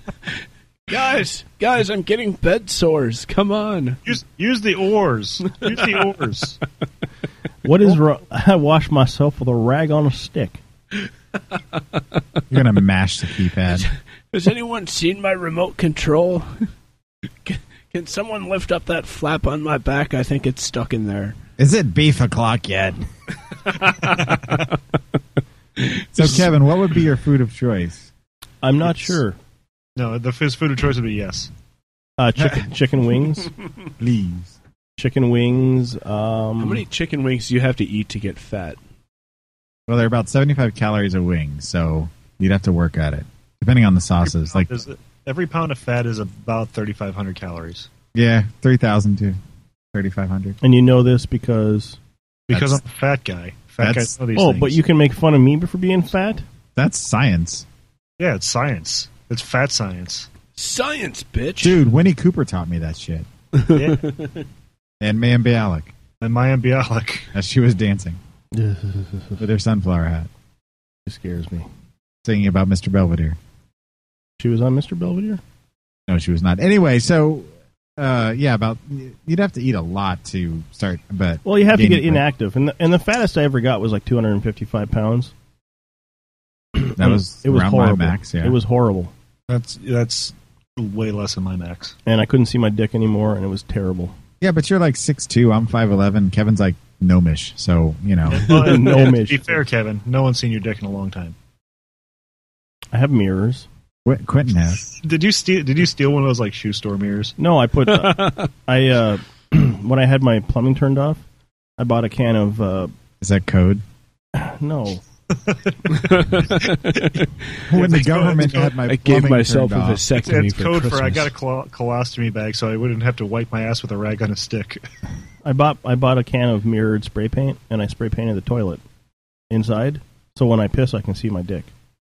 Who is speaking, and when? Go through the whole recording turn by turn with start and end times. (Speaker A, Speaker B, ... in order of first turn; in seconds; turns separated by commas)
Speaker A: 0.9-4.0, Speaker B: 4.0-6.6, Speaker C: 7.6-10.6, Speaker D: 12.5-13.8, Speaker A: 13.8-16.6, Speaker A: 17.4-21.4, Speaker D: 21.6-23.0, Speaker A: 23.9-24.1, Speaker A: 25.8-26.3, Speaker D: 26.1-28.1, Speaker C: 28.6-29.4, Speaker B: 29.9-31.5, Speaker C: 32.2-33.5, Speaker D: 34.0-34.5, Speaker C: 35.0-36.8, Speaker A: 36.6-38.8, Speaker D: 39.9-44.7, Speaker B: 44.2-47.9, Speaker D: 48.1-49.4, Speaker D: 49.9-50.6, Speaker C: 50.6-52.0, Speaker B: 52.5-54.7, Speaker D: 52.5-52.8, Speaker D: 53.8-54.1, Speaker C: 54.3-56.4, Speaker D: 56.8-57.6, Speaker B: 58.2-60.3, Speaker A: 60.5-61.8, Speaker D: 61.6-63.2, Speaker A: 63.7-64.4, Speaker B: 63.7-64.0, Speaker D: 65.0-65.9, Speaker B: 66.2-67.3, Speaker D: 67.3-68.2, Speaker C: 68.5-69.4, Speaker D: 69.4-70.3, Speaker C: 71.0-71.7, Speaker D: 72.2-73.4, Speaker C: 74.4-75.4, Speaker D: 76.1-82.2, Speaker C: 81.4-85.3, Speaker C: 86.8-89.1, Speaker D: 87.0-88.5, Speaker B: 89.5-91.9, Speaker C: 92.0-94.1, Speaker D: 94.4-98.5, Speaker B: 98.3-101.3, Speaker C: 98.5-99.6, Speaker C: 102.9-103.7, Speaker D: 104.0-104.8, Speaker B: 104.9-107.3, Speaker C: 107.4-111.2, Speaker A: 107.8-108.5, Speaker C: 111.8-112.9, Speaker D: 113.2-113.8, Speaker C: 114.3-115.0, Speaker B: 115.5-116.0, Speaker A: 116.1-117.2, Speaker D: 117.7-120.0, Speaker B: 117.7-118.7, Speaker A: 118.9-121.3, Speaker B: 120.2-124.8, Speaker C: 125.4-128.8, Speaker C: 129.5-131.7